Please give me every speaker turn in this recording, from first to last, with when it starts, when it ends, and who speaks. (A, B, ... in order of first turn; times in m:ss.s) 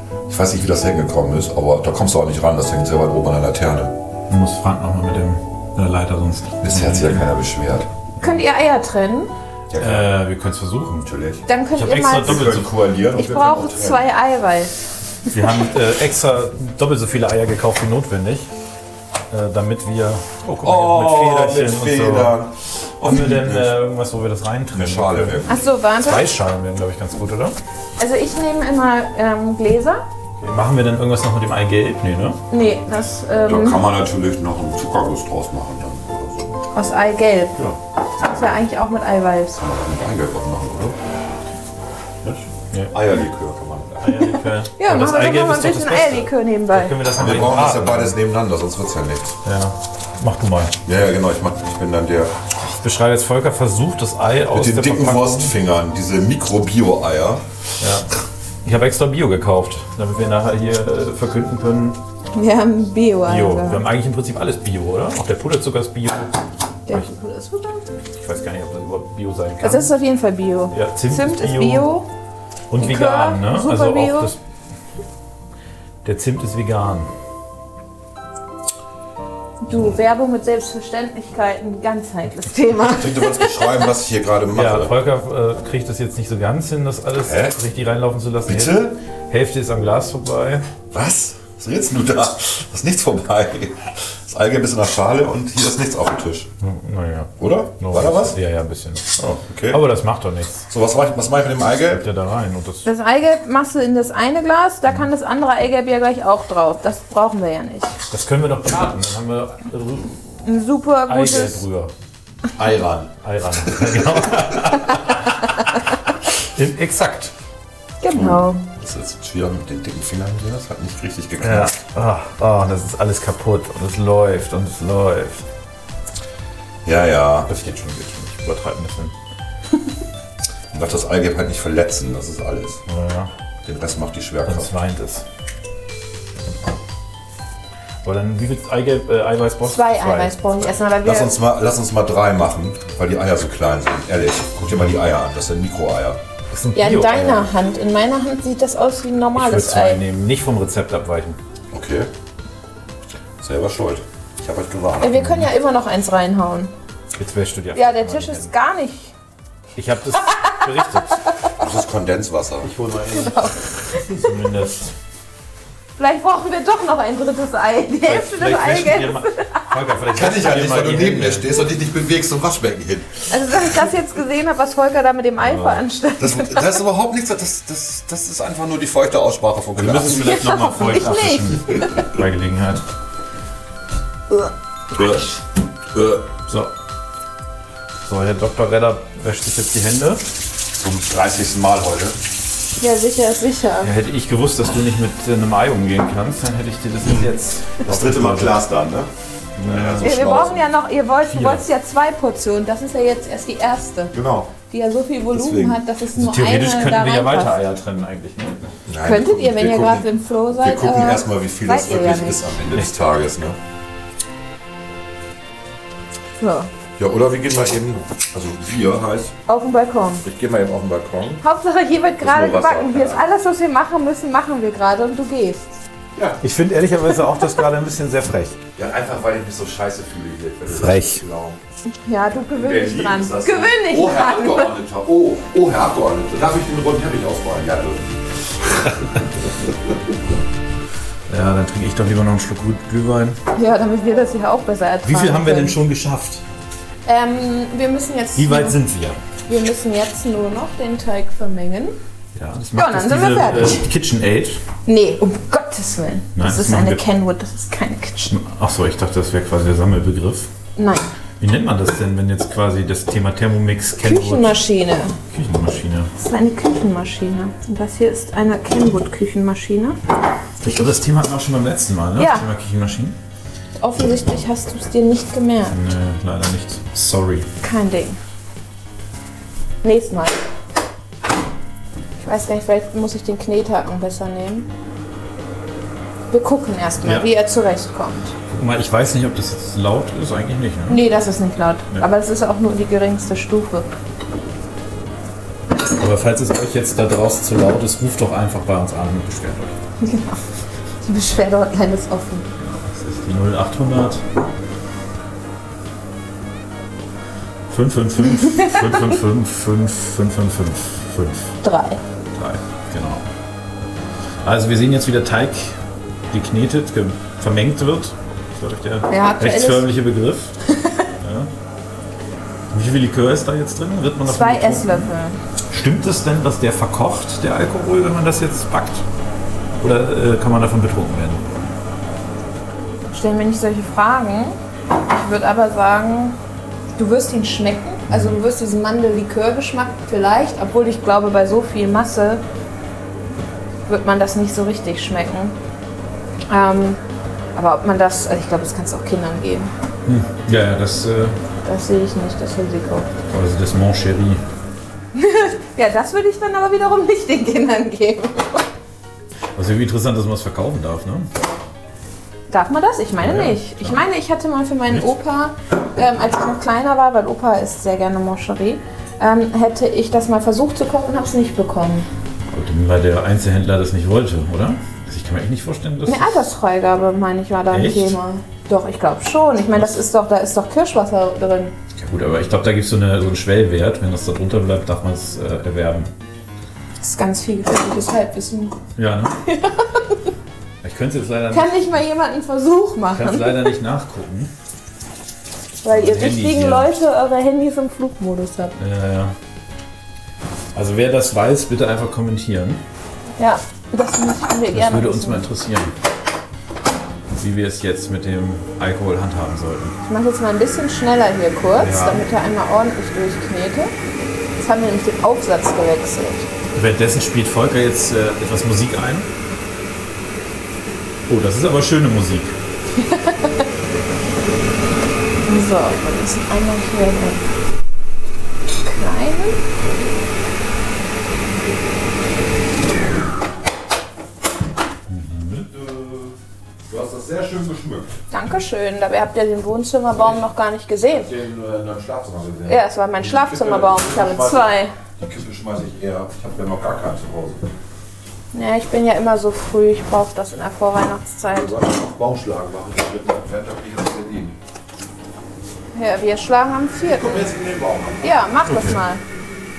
0:00.3-0:04.0 A
0:04.3-0:07.2 B
0:06.6-0:07.9 A
0:08.2-0:09.3 C
0:09.7-0:10.1 A
0:09.8-0:11.1 B
0:11.0-0:11.4 A
0:11.5-0:12.5 C
0:11.7-0:12.7 B
0:12.2-0:14.0 A
0:13.1-0:14.7 C
0:15.3-0:18.5 B
0:19.3-0:22.4 B
0:20.6-0:23.8 A
0:23.0-0:25.4 B
0:24.7-0:25.6 A
0:25.5-0:26.3 C
0:26.0-0:27.6 B
0:28.0-0:30.0 C
0:30.4-0:32.4 B
0:32.5-0:33.8 C
0:33.4-0:36.6 A
0:36.7-0:37.6 C
0:38.2-0:39.6 C
0:39.6-0:41.0 A
0:42.2-0:44.3 A
0:44.0-0:48.2 B
0:44.7-0:47.0 C
0:47.1-0:49.4 A
0:49.4-0:50.8 B
0:50.8-0:52.3 A
0:52.6-0:55.5 B
0:54.5-0:57.4 A
0:57.8-0:58.1 B
0:58.6-1:02.0 B
1:02.3-1:03.8 C
1:03.2-1:06.3 B
1:06.9-1:07.8 C
1:08.2-1:09.9 B
1:09.6-1:12.1 C
1:10.7-1:11.9 B
1:12.7-1:14.4 B
1:12.8-1:14.3 C
1:16.0-1:17.1 B
1:19.6-1:23.8 C
1:22.9-1:24.9 A
1:24.5-1:30.6 B
1:27.2-1:27.6 A
1:28.4-1:29.0 A
1:30.9-1:36.5 A
1:36.6-1:40.6 B
1:37.4-1:38.4 A
1:39.3-1:39.8 A
1:40.7-1:42.0 A
1:41.8-1:42.8 B
1:42.8-1:47.9 C
1:48.1-1:50.2 B
1:50.4-1:51.6 C
1:51.1-1:51.9 B
1:52.5-1:54.8 A
1:53.2-1:55.8 B
1:56.4-1:57.3 B
1:58.0-1:58.6 C
1:58.1-2:01.7 A
2:01.4-2:05.4 B
2:06.8-2:07.5 A
2:07.5-2:09.1 B
2:10.7-2:12.8 A
2:12.9-2:13.3 B
2:13.6-2:14.7 A
2:14.4-2:15.2 B
2:18.0-2:20.7 B
2:19.6-2:21.3 C
2:21.0-2:26.2 A
2:26.5-2:27.5 B
2:26.7-2:30.0 C
2:29.4-2:31.4 B
2:31.7-2:32.1 A
2:33.4-2:35.2 A
2:35.0-2:36.7 C
2:35.2-2:35.5 B
2:37.1-2:38.5 B
2:37.7-2:39.1 C
2:39.8-2:41.2 B
2:40.2-2:40.7 C
2:41.6-2:42.7 A
2:42.6-2:44.9 B
2:43.1-2:44.3 C
2:46.0-2:49.7 C
2:48.0-2:51.6 B
2:50.1-2:53.5 A
2:53.3-2:56.8 C
2:55.4-2:55.8 B
2:56.2-3:00.4 A
2:59.7-3:02.8 B
3:00.1-3:02.1 C
3:04.9-3:05.3 A
3:05.9-3:06.3 A
3:08.0-3:10.2 B
3:10.7-3:12.2 A
3:12.8-3:13.9 C
3:13.8-3:18.6 B
3:17.0-3:17.3 A
3:17.8-3:19.1 A
3:19.6-3:20.5 B
3:19.6-3:20.6 A
3:20.0-3:27.6 C
3:21.3-3:21.7 B
3:24.1-3:24.5 A
3:25.3-3:25.8 A
3:26.1-3:28.6 B
3:28.9-3:33.6 A
3:29.0-3:32.5 C
3:36.4-3:36.7 C
3:37.0-3:39.3 A
3:39.5-3:40.2 C
3:40.2-3:41.4 A
3:41.4-3:45.7 C
3:42.2-3:43.3 A
3:46.1-3:46.4 A
3:46.4-3:48.6 B
3:48.8-3:51.6 A
3:50.7-3:51.2 B
3:52.0-3:54.7 C
3:52.5-3:59.2 A
4:01.3-4:03.4 B
4:03.5-4:05.8 C
4:05.0-4:06.4 B
4:07.0-4:08.8 C
4:08.4-4:09.2 B
4:09.5-4:12.0 C
4:12.3-4:14.6 B
4:12.7-4:13.8 C
4:14.8-4:18.4 C
4:16.4-4:17.0 B
4:18.3-4:20.5 B
4:20.8-4:21.1 C
4:21.4-4:24.6 B
4:24.0-4:25.1 C
4:25.3-4:26.1 B
4:26.2-4:30.0 C
4:30.6-4:33.2 B
4:32.2-4:32.4 C
4:33.8-4:35.8 C
4:35.7-4:37.5 B
4:37.6-4:38.2 C
4:39.8-4:40.4 C
4:42.2-4:44.7 C
4:46.3-4:48.3 C
4:47.0-4:47.3 B
4:48.5-4:51.0 B
4:50.9-4:53.9 C
4:55.8-4:59.8 B
5:00.0-5:00.4 C
5:01.0-5:02.5 C
5:02.6-5:04.2 B
5:07.7-5:11.5 B
5:08.3-5:09.1 C
5:11.6-5:12.0 C
5:12.3-5:13.2 B
5:14.4-5:15.8 B
5:16.3-5:20.5 B
5:19.1-5:19.9 C
5:20.7-5:21.1 C
5:21.2-5:21.5 B
5:22.7-5:25.1 B
5:24.2-5:25.4 C
5:25.7-5:29.0 B
5:29.8-5:31.4 B
5:33.1-5:36.4 C
5:37.0-5:42.4 C
5:38.1-5:38.4 B
5:43.9-5:45.6 C
5:46.5-5:47.0 C
5:47.6-5:49.7 C
5:50.0-5:51.4 B
5:51.6-5:53.1 C
5:53.3-5:54.4 B
5:55.1-5:58.6 C
5:59.5-6:01.3 B
6:02.5-6:12.1 C
6:03.2-6:04.0 B
6:12.5-6:16.4 B
6:16.0-6:21.7 C
6:17.7-6:18.1 B
6:22.0-6:26.1 B
6:27.0-6:28.8 C
6:29.0-6:29.4 B
6:29.4-6:30.3 C
6:30.8-6:31.8 B
6:31.5-6:33.7 C
6:33.1-6:34.5 B
6:35.8-6:38.8 C
6:35.9-6:36.9 B
6:38.8-6:39.3 B
6:40.7-6:42.8 B
6:43.4-6:45.4 C
6:44.7-6:45.9 B
6:47.4-6:50.0 B
6:50.0-6:53.9 C
6:51.8-6:52.3 B
6:54.6-6:56.5 C
6:56.7-6:59.3 B
7:01.3-7:02.5 B
7:03.0-7:03.6 C
7:05.4-7:07.4 C
7:08.8-7:09.6 C
7:15.1-7:15.6 B
7:15.6-7:16.4 A
7:16.9-7:18.2 A
7:18.3-7:21.3 C
7:21.1-7:27.7 A
7:22.6-7:24.9 C
7:28.5-7:31.8 C
7:31.5-7:34.6 A
7:35.9-7:37.5 C
7:37.0-7:38.4 A
7:38.2-7:39.2 C
7:38.7-7:39.0 B